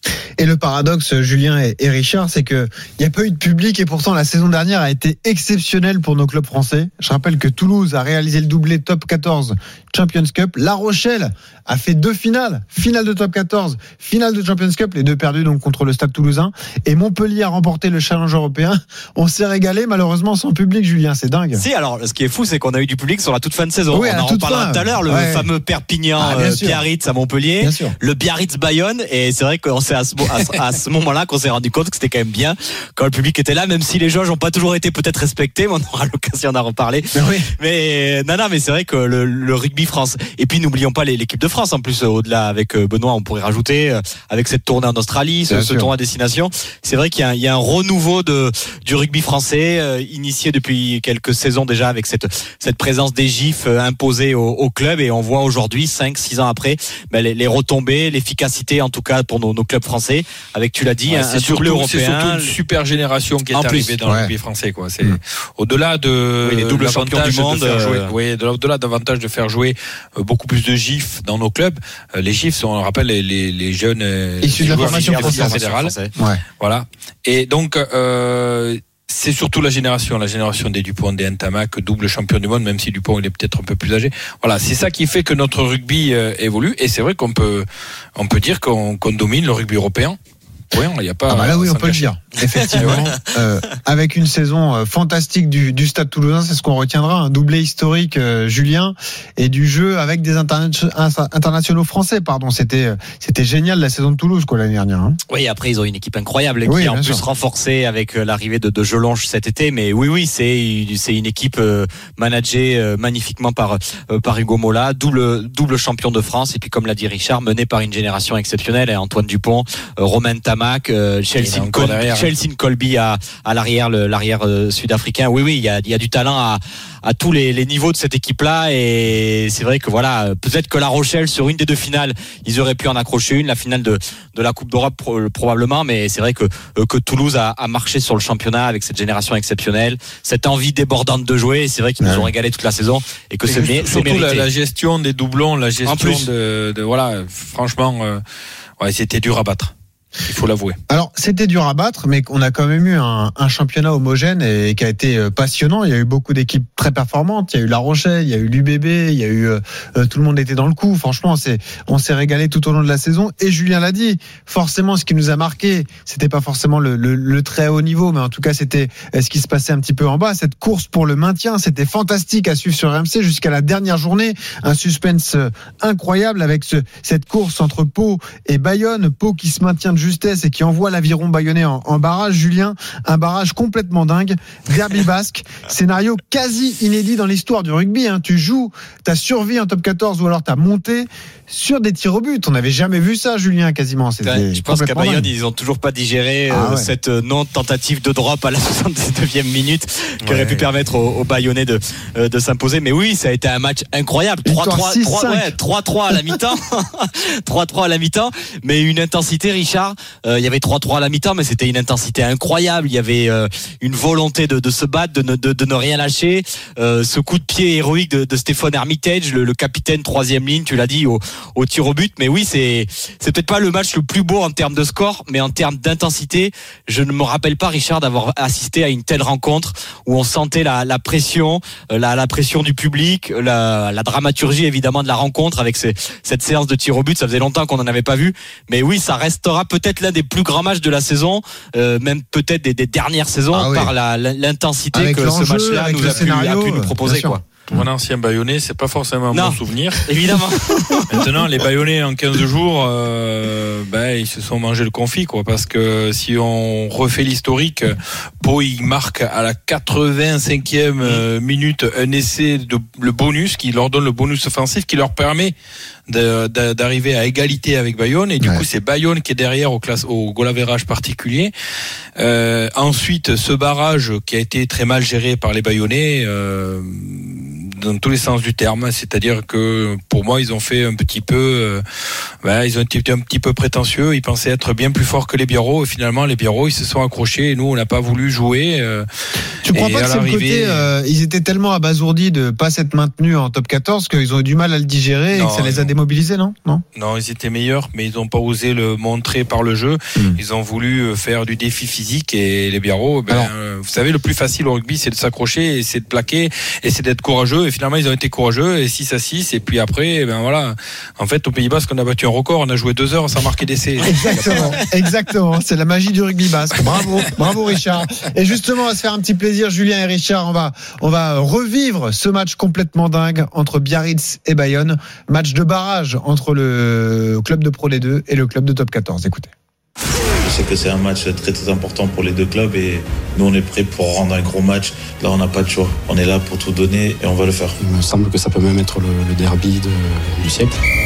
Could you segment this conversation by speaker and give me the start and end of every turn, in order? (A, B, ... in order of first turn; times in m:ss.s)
0:00.4-0:21.6 A
0:21.5-1:02.5 B
0:23.9-0:25.5 A
0:26.2-0:26.8 A
0:27.6-0:28.0 A
0:37.1-0:37.5 A
0:45.5-0:45.9 A
1:01.1-1:15.9 C
1:03.5-1:03.9 B
1:04.0-1:04.3 A
1:06.4-1:08.1 B
1:14.4-1:15.6 A
1:14.6-1:16.1 B
1:16.2-1:16.4 A
1:16.6-1:27.6 C
1:28.2-1:30.2 C
1:30.7-1:32.0 C
1:31.3-1:45.2 A
1:32.6-1:33.1 B
1:32.7-1:33.1 C
1:45.3-2:24.5 B
1:46.6-1:47.2 A
2:01.4-2:02.3 C
2:22.0-2:22.3 A
2:23.4-2:28.2 C
2:25.8-2:26.3 B
2:28.8-2:29.7 C
2:30.2-2:30.8 C
2:30.9-3:15.3 A
3:14.2-4:07.4 B
3:16.5-3:16.9 A
3:20.2-3:20.6 C
3:24.4-3:25.6 A
4:03.5-4:03.9 A
4:04.9-4:07.8 A
4:07.7-4:10.0 C
4:09.3-4:11.2 B
4:11.1-4:25.5 C
4:26.1-4:31.5 C
4:28.4-4:28.6 A
4:32.2-4:41.8 C
4:42.4-4:49.0 C
4:49.7-4:56.8 A
4:49.7-4:50.8 C
4:55.3-4:55.9 C
4:57.0-5:14.8 C
5:14.0-5:29.5 A
5:16.9-5:17.2 C
5:30.4-5:37.8 D
5:37.8-5:40.8 E